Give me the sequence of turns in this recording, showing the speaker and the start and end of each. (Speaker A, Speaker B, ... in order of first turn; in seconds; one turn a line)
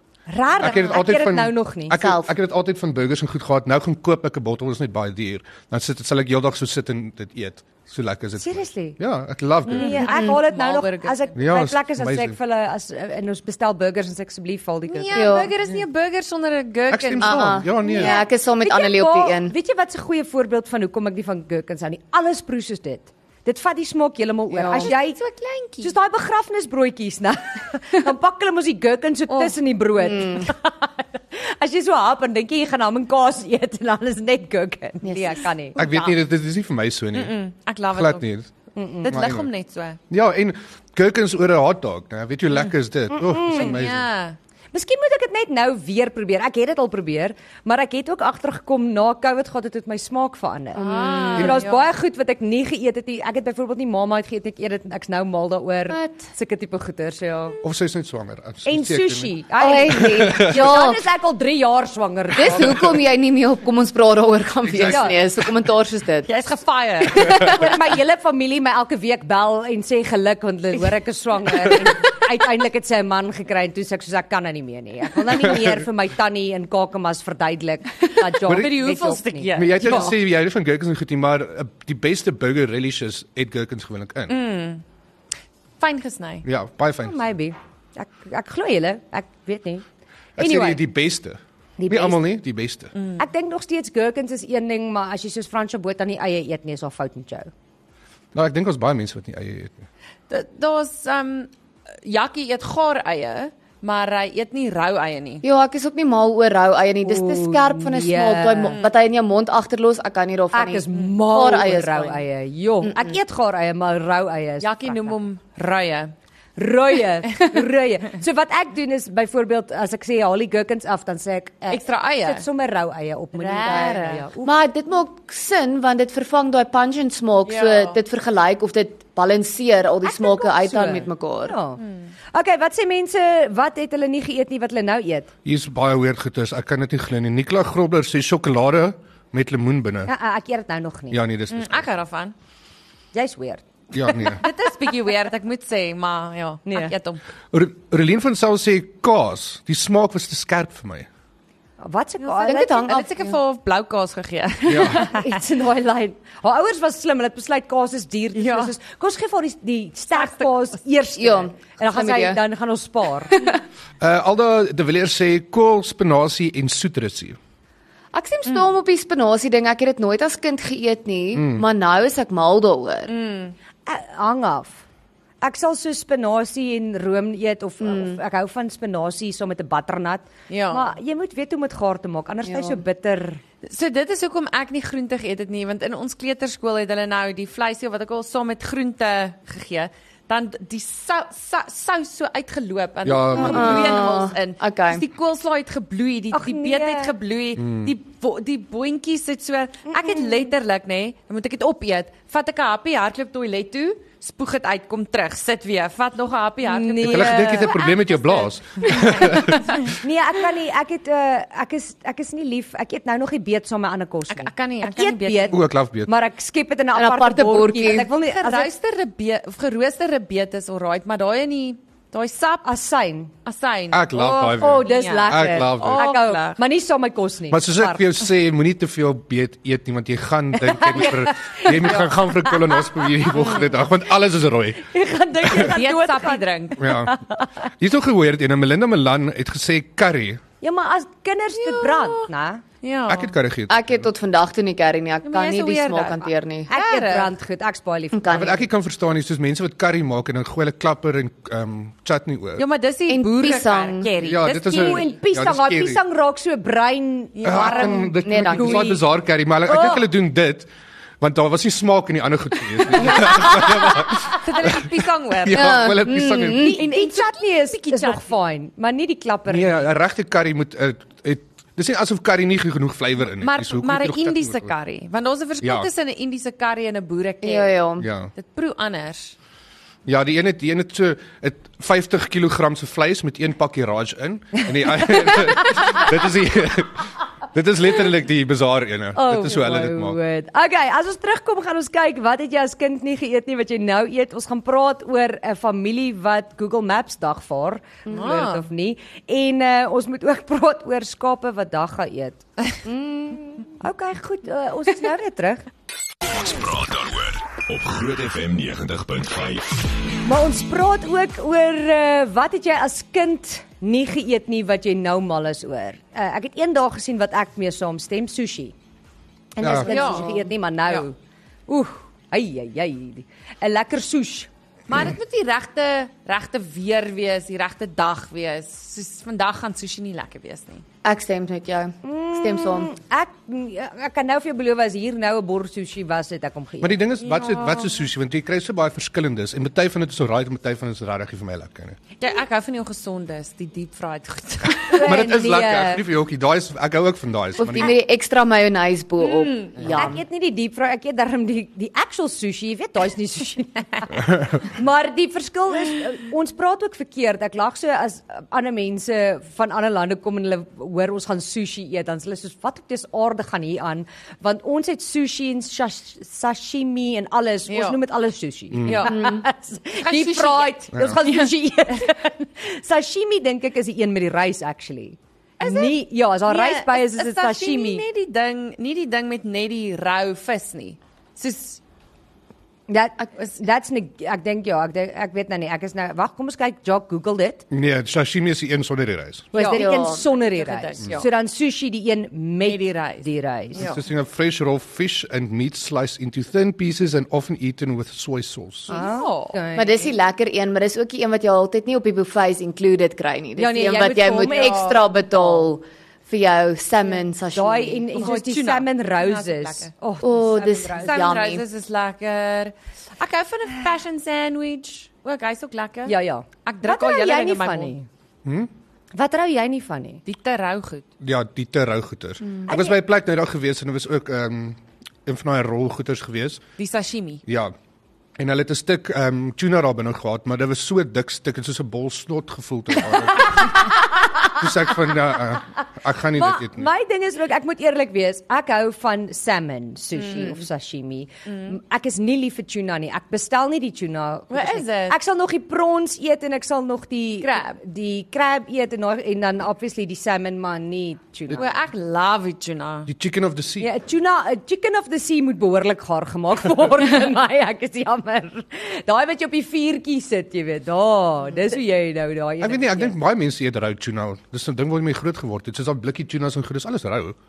Speaker A: 0.3-1.9
Speaker B: 0.6-10.0
Speaker C: 2.0-2.3
Speaker A: 8.4-9.0
Speaker A: 9.6-15.2
Speaker D: 9.7-11.3
Speaker B: 11.3-12.3
Speaker D: 14.9-18.2
Speaker C: 15.1-15.5
Speaker B: 16.9-18.2
Speaker C: 17.2-19.5
Speaker A: 17.8-25.2
Speaker C: 24.5-24.9
Speaker D: 24.8-25.9
Speaker A: 25.8-35.8
Speaker C: 30.0-30.5
Speaker C: 35.0-35.4
Speaker D: 35.8-36.2
Speaker B: 35.8-37.4
Speaker D: 37.1-38.2
Speaker B: 37.9-38.5
Speaker A: 38.8-39.2
Speaker D: 39.0-40.0
Speaker B: 39.1-39.5
Speaker B: 40.1-44.1
Speaker A: 43.1-43.7
Speaker D: 43.5-44.4
Speaker A: 44.7-57.6
Speaker C: 50.8-51.6
Speaker D: 50.8-51.8
Speaker C: 55.9-56.2
Speaker B: 57.6-59.3
Speaker A: 58.6-63.0
Speaker C: 59.6-61.0
Speaker B: 59.9-60.6
Speaker C: 62.3-66.3
Speaker B: 64.6-65.5
Speaker A: 64.9-65.1
Speaker D: 66.2-67.4
Speaker C: 67.1-67.7
Speaker A: 67.3-80.1
Speaker B: 75.4-75.8
Speaker D: 78.4-80.2
Speaker B: 78.5-78.7
Speaker B: 79.5-84.3
Speaker D: 84.3-84.8
Speaker D: 85.8-86.4
Speaker B: 86.4-87.3
Speaker A: 87.0-89.8
Speaker B: 90.4-92.9
Speaker A: 90.4-90.8
Speaker A: 91.8-92.4
Speaker D: 92.9-93.2
Speaker A: 93.2-97.5
Speaker B: 98.3-99.8
Speaker D: 100.3-101.5
Speaker D: 102.0-105.4
Speaker C: 105.4-112.2
Speaker A: 107.0-108.8
Speaker A: 110.5-115.2
Speaker C: 112.8-113.2
Speaker D: 114.6-116.1
Speaker A: 116.6-124.6
Speaker D: 121.7-122.4
Speaker D: 123.4-124.2
Speaker C: 124.4-131.6
Speaker D: 127.4-128.0
Speaker A: 130.0-131.8
Speaker D: 131.8-132.1
Speaker A: 132.3-135.3
Speaker B: 135.4-140.1
Speaker A: 140.1-141.2
Speaker B: 141.1-141.9
Speaker D: 141.5-142.3
Speaker A: 143.1-143.6
Speaker B: 143.9-144.4
Speaker D: 144.3-147.2
Speaker A: 146.7-146.9
Speaker B: 147.5-151.1
Speaker A: 151.8-152.9
Speaker D: 152.2-155.4
Speaker C: 152.4-153.3
Speaker B: 154.6-155.1
Speaker A: 154.8-163.3
Speaker D: 158.3-158.7
Speaker D: 160.1-160.5
Speaker C: 161.2-162.4
Speaker C: 163.3-163.6
Speaker B: 164.0-167.4
Speaker C: 168.1-173.1
Speaker B: 171.3-171.6
Speaker D: 173.1-173.5
Speaker A: 173.8-174.8
Speaker A: 175.4-183.4
Speaker C: 177.8-178.2
Speaker D: 180.5-180.9
Speaker C: 182.4-182.8
Speaker D: 183.6-209.9
Speaker B: 193.0-194.0
Speaker C: 193.4-195.0
Speaker A: 196.3-197.1
Speaker B: 197.6-197.9
Speaker A: 199.9-200.2
Speaker A: 206.6-207.6
Speaker B: 207.0-209.9
Speaker A: 209.9-218.7
Speaker D: 214.3-215.6
Speaker B: 215.5-216.1
Speaker C: 216.9-218.1
Speaker D: 218.2-222.7
Speaker A: 222.6-223.3
Speaker D: 223.4-226.6
Speaker B: 223.9-226.1
Speaker A: 224.1-228.1
Speaker B: 227.5-234.9
Speaker A: 230.7-232.7
Speaker A: 234.9-237.6
Speaker B: 235.4-235.7
Speaker D: 235.5-236.9
Speaker B: 236.8-237.2
Speaker B: 237.8-240.4
Speaker A: 240.6-242.6
Speaker D: 241.6-242.3
Speaker D: 242.8-243.3
Speaker B: 243.1-244.1
Speaker C: 243.7-246.7
Speaker D: 245.2-247.3
Speaker A: 246.7-248.6
Speaker C: 248.1-248.6
Speaker B: 248.3-252.6
Speaker D: 252.6-255.1
Speaker C: 253.1-254.1
Speaker B: 254.2-256.0
Speaker A: 254.6-259.0
Speaker D: 257.4-258.1
Speaker B: 257.4-260.7
Speaker C: 258.2-259.0
Speaker A: 259.7-260.0
Speaker B: 261.2-264.9
Speaker D: 263.1-265.9
Speaker B: 265.4-266.8
Speaker C: 265.5-266.8
Speaker A: 266.6-269.9
Speaker D: 266.8-268.3
Speaker B: 269.5-274.7
Speaker D: 273.4-277.8
Speaker B: 275.6-275.9
Speaker C: 277.4-278.1
Speaker B: 278.0-278.3
Speaker D: 278.4-279.4
Speaker B: 280.1-290.2
Speaker A: 285.1-286.0
Speaker A: 289.1-302.4
Speaker D: 298.1-298.6
Speaker C: 302.9-303.6
Speaker A: 303.8-305.6
Speaker E: 306.3-309.8
Speaker A: 310.2-318.8
Speaker A: 319.6-321.1
Speaker B: 319.6-319.9
Speaker D: 319.9-321.1
Speaker A: 321.7-324.5
Speaker D: 324.9-330.9
Speaker C: 331.0-332.9
Speaker A: 332.0-337.0
Speaker B: 336.8-342.0
Speaker D: 337.2-338.0
Speaker D: 342.2-345.1
Speaker A: 344.9-346.0
Speaker B: 344.9-347.9
Speaker C: 347.6-350.2
Speaker D: 349.2-349.6
Speaker A: 349.9-378.0
Speaker D: 367.7-368.0
Speaker B: 368.7-369.1
Speaker D: 368.9-369.4
Speaker C: 369.1-369.4
Speaker D: 370.0-372.1
Speaker B: 370.9-371.2
Speaker D: 375.6-381.8
Speaker A: 382.9-387.6
Speaker B: 387.7-389.5
Speaker D: 389.5-389.9
Speaker A: 389.5-393.9
Speaker C: 389.6-390.2
Speaker D: 390.5-391.3
Speaker D: 392.6-394.0
Speaker B: 393.8-398.9
Speaker A: 398.9-400.1
Speaker D: 398.9-399.6
Speaker C: 399.8-408.2
Speaker A: 403.6-405.6
Speaker D: 404.4-405.0
Speaker A: 407.5-411.3
Speaker D: 408.1-409.9
Speaker C: 410.2-411.6
Speaker D: 410.9-418.0
Speaker A: 416.1-417.9
Speaker B: 418.4-418.7
Speaker A: 419.1-420.2
Speaker D: 420.3-421.1
Speaker B: 421.2-426.6
Speaker A: 422.7-422.9
Speaker D: 426.8-427.4
Speaker B: 427.4-427.7
Speaker B: 428.4-436.9
Speaker A: 436.4-451.6
Speaker D: 440.1-440.6
Speaker D: 441.5-441.7
Speaker D: 444.5-445.1
Speaker D: 447.4-447.8
Speaker D: 451.5-453.1
Speaker B: 453.1-453.9
Speaker A: 453.8-463.1
Speaker B: 462.6-467.4